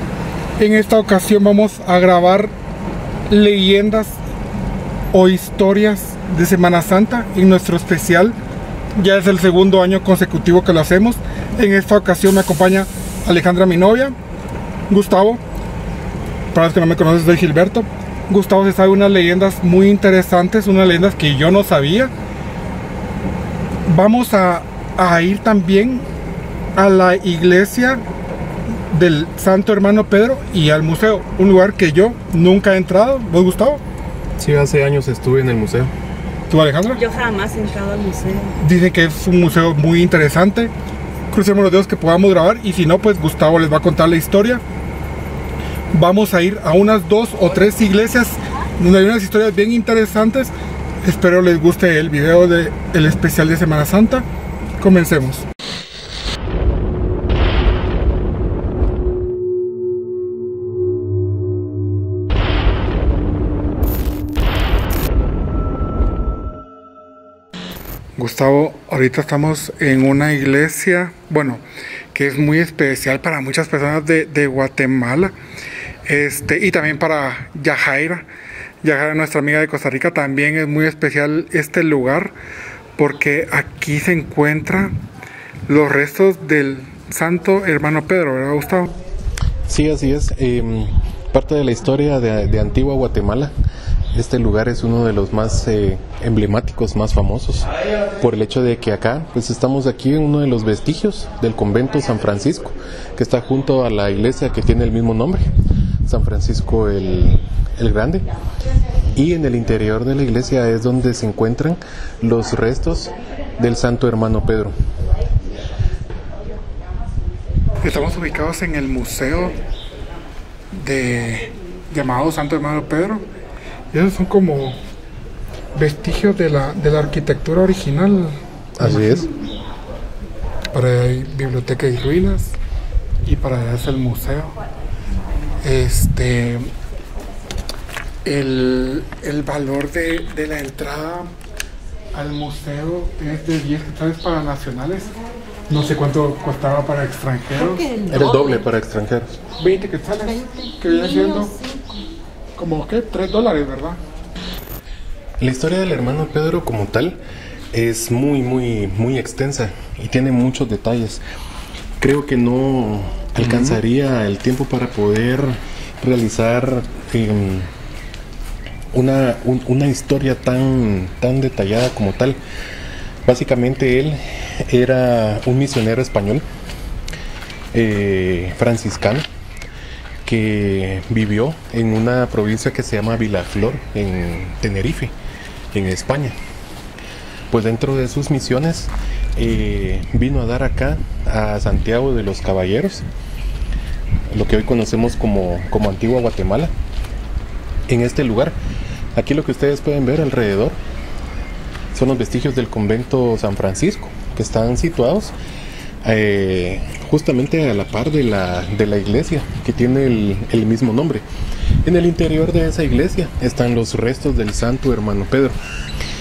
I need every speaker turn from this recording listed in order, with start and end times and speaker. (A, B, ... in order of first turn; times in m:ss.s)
0:00.6-0:02.5 A
0:03.3-0:04.2 A
0:05.1-0:08.4 A
0:09.0-0:14.2 A
0:14.9-0:15.4 A
0:16.5-0:22.1 A
0:23.9-0:26.1 A
0:26.8-0:28.0 A
0:28.9-0:33.8 A
0:34.4-0:35.9 B
0:36.5-0:37.0 A
0:37.0-0:38.5 C
0:38.6-0:40.7 A
0:41.3-0:44.6 A
0:45.9-0:54.3 A
0:54.8-0:55.5 A
1:08.2-1:11.6 A
1:12.1-1:15.3 A
1:16.1-1:18.3 A
1:18.8-1:22.4 A
1:23.0-1:24.9 A
1:25.7-1:28.9 A
1:29.7-1:33.5 B
1:34.1-1:45.5 B
1:46.1-1:48.3 B
1:49.2-1:54.7 B
1:57.8-1:59.6 A
2:00.7-2:03.2 A
2:03.9-2:04.8 A
2:05.8-2:09.3 A
2:08.8-2:09.3 B
2:10.7-2:12.6 A
2:13.2-2:14.6 A
2:15.6-2:16.7 A
2:18.2-2:21.3 A
2:22.1-2:25.1 A
2:25.7-2:28.0 A
2:27.6-2:28.6 C
2:28.1-2:29.4 B
2:29.6-2:31.5 A
2:30.3-2:32.0 C
2:32.6-2:34.0 A
2:35.4-2:37.2 B
2:37.7-2:41.2 B
2:42.0-2:47.7 B
2:43.4-2:43.8 A
2:48.9-2:52.4 B
2:53.3-2:56.4 B
2:57.7-2:59.3 B
3:00.2-3:05.2 B
3:05.7-3:06.4 B
3:07.5-3:13.1 B
3:14.3-3:16.7 B
3:17.9-3:18.6 B
3:19.2-3:20.8 B
3:21.9-3:25.4 B
3:26.0-3:31.2 B
3:31.8-3:35.6 B